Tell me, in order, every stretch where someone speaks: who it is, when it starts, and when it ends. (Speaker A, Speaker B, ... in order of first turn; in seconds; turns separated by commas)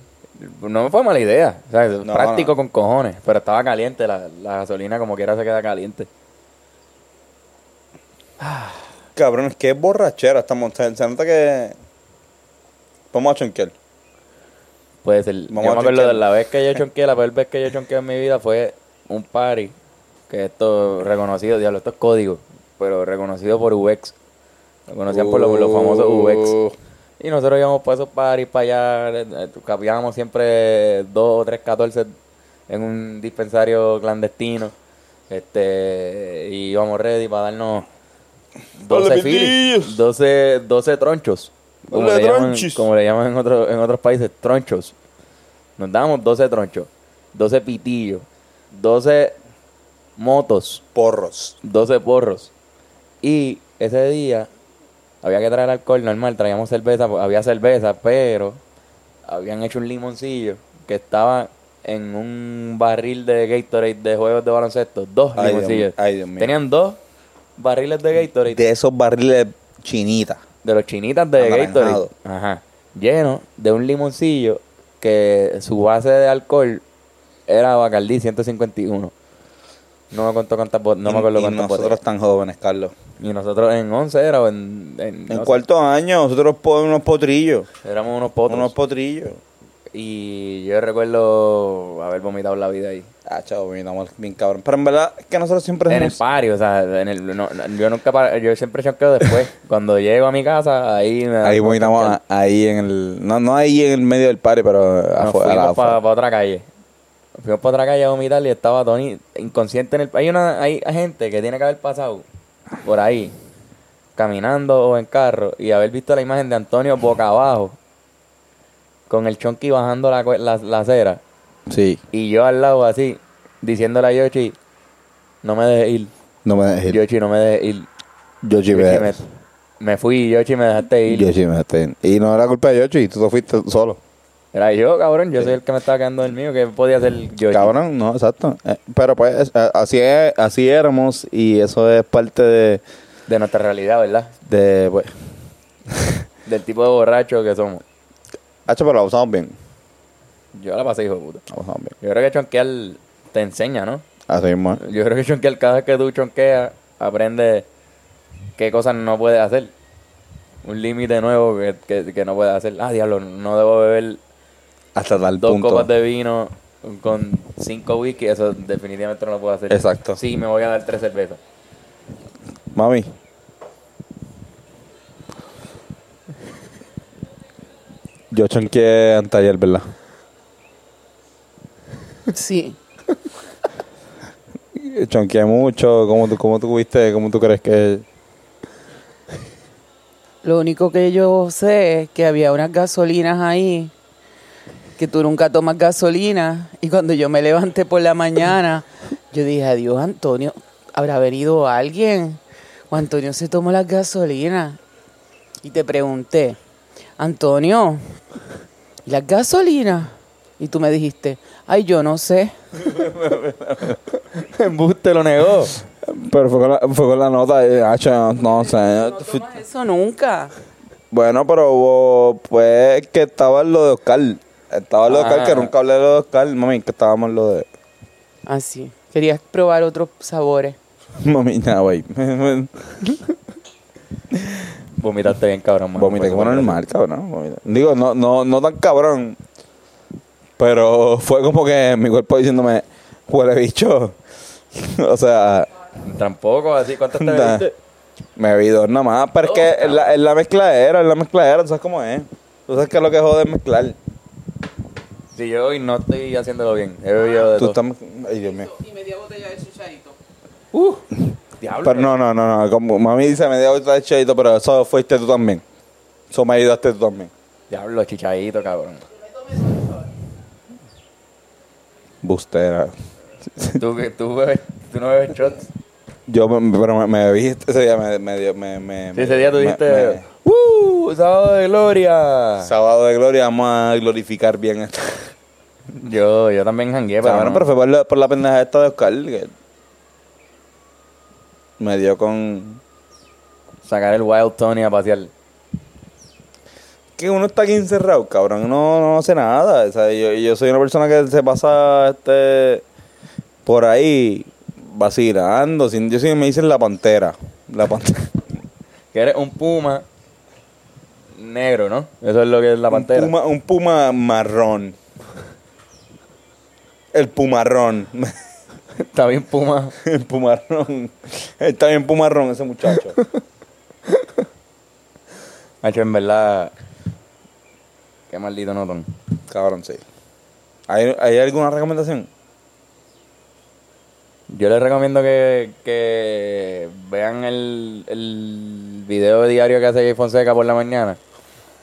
Speaker A: 0.4-6.1, Speaker B: 2.0-2.5, Speaker A: 8.4-8.8, Speaker B: 9.2-11.8, Speaker B: 13.1-13.8, Speaker A: 15.0-19.8, Speaker B: 15.5-16.8, Speaker A: 20.3-24.1, Speaker A: 24.9-26.6, Speaker B: 25.1-26.8, Speaker A: 27.2-32.1, Speaker A: 32.7-34.8, Speaker A: 35.3-37.9, Speaker A: 38.8-45.0, Speaker B: 38.9-40.0, Speaker B: 41.9-42.9, Speaker A: 45.8-49.4, Speaker A: 50.2-50.8, Speaker B: 51.0-51.6, Speaker A: 51.6-52.5, Speaker A: 53.2-54.5, Speaker A: 55.2-58.6, Speaker A: 59.3-67.0, Speaker B: 65.4-66.5, Speaker A: 67.6-68.6, Speaker B: 68.5-70.4, Speaker A: 70.6-76.8, Speaker B: 71.4-72.1, Speaker A: 77.5-79.1, Speaker A: 80.1-82.0, Speaker B: 81.1-82.9, Speaker A: 83.2-85.5, Speaker B: 85.3-87.7, Speaker A: 87.8-88.7, Speaker B: 88.5-89.4, Speaker A: 89.9-93.1, Speaker B: 93.3-96.2, Speaker A: 95.9-102.2, Speaker B: 101.4-106.0, Speaker A: 105.2-106.7, Speaker A: 107.4-112.3, Speaker A: 112.8-113.3, Speaker A: 114.2-117.8, Speaker A: 119.1-121.2, Speaker B: 121.7-122.0, Speaker A: 122.1-124.6, Speaker A: 125.4-126.1, Speaker B: 126.5-127.0, Speaker A: 126.9-127.9, Speaker B: 128.4-129.2, Speaker A: 128.7-129.2, Speaker A: 129.8-131.3, Speaker B: 131.1-134.0, Speaker A: 134.5-137.7, Speaker B: 137.5-142.8, Speaker A: 143.3-144.3, Speaker B: 144.5-145.1, Speaker B: 145.9-146.2, Speaker A: 146.5-147.8, Speaker B: 148.7-149.6, Speaker A: 150.5-151.4, Speaker B: 151.5-151.9, Speaker A: 152.0-154.1, Speaker B: 154.3-154.8, Speaker A: 154.8-157.7, Speaker A: 158.6-159.7, Speaker A: 160.6-164.2, Speaker B: 164.9-165.9, Speaker A: 165.4-171.4, Speaker B: 169.7-170.2, Speaker B: 172.7-173.1, Speaker B: 178.3-179.9, Speaker C: 182.3-182.8, Speaker B: 184.8-188.0, Speaker C: 190.4-193.9, Speaker C: 195.0-204.8, Speaker C: 205.6-206.6, Speaker C: 207.2-208.0, Speaker C: 209.1-212.5, Speaker B: 212.8-214.0, Speaker A: 214.1-215.8, Speaker B: 215.9-219.6, Speaker C: 219.1-220.5, Speaker B: 221.1-227.7, Speaker A: 225.1-225.7, Speaker C: 228.5-230.8, Speaker B: 231.2-233.2, Speaker B: 234.3-234.7, Speaker A: 235.0-236.8, Speaker B: 236.0-239.4, Speaker B: 240.6-244.2, Speaker B: 244.7-245.7, Speaker A: 246.0-247.8, Speaker B: 247.1-247.7, Speaker B: 248.4-254.0, Speaker A: 249.4-250.1, Speaker A: 255.3-257.8, Speaker B: 257.5-258.8, Speaker A: 260.7-261.1, Speaker A: 261.6-262.1, Speaker B: 261.8-265.6, Speaker B: 266.3-267.3, Speaker A: 267.7-269.1, Speaker B: 272.2-272.9, Speaker A: 273.8-275.7, Speaker B: 276.3-280.2, Speaker A: 279.1-282.7, Speaker B: 282.6-285.3, Speaker A: 285.9-287.7, Speaker B: 287.2-289.5, Speaker B: 291.8-292.8, Speaker A: 293.8-295.3, Speaker B: 297.2-302.8, Speaker B: 303.6-308.4, Speaker A: 309.1-310.1, Speaker A: 311.3-313.3, Speaker B: 312.9-315.0, Speaker B: 317.1-318.4, Speaker A: 318.9-319.9, Speaker B: 320.0-323.2, Speaker A: 324.1-324.4, Speaker A: 325.8-326.7, Speaker A: 328.3-329.1, Speaker B: 329.5-330.0, Speaker B: 330.9-332.3, Speaker A: 334.5-341.2